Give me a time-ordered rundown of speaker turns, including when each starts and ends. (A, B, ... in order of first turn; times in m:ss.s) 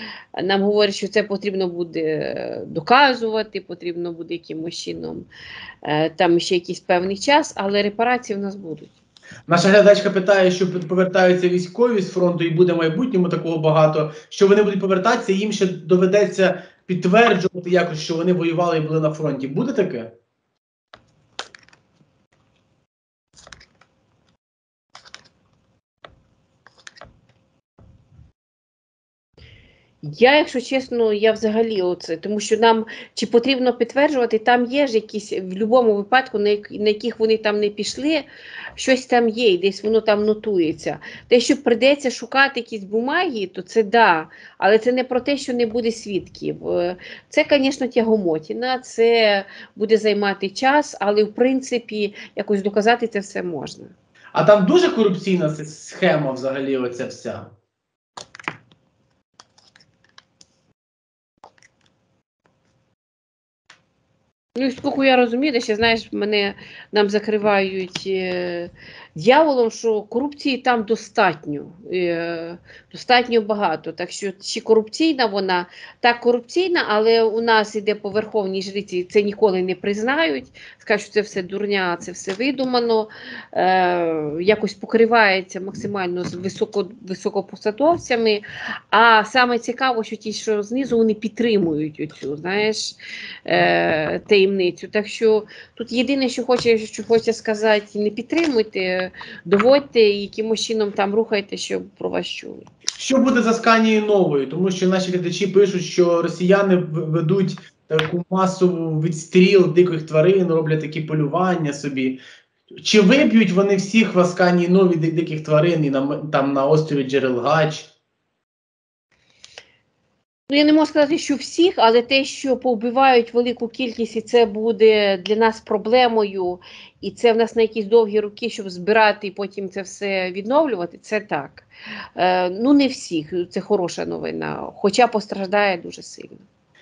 0:00.4-0:05.3 A
0:05.8-0:08.9 A
0:09.5-0:20.1 B
0:30.0-0:53.9 A
0:54.3-0:57.5 B
1:04.6-1:42.7 A
1:43.0-1:52.2 B
1:52.8-1:57.9 B
2:00.5-2:16.4 A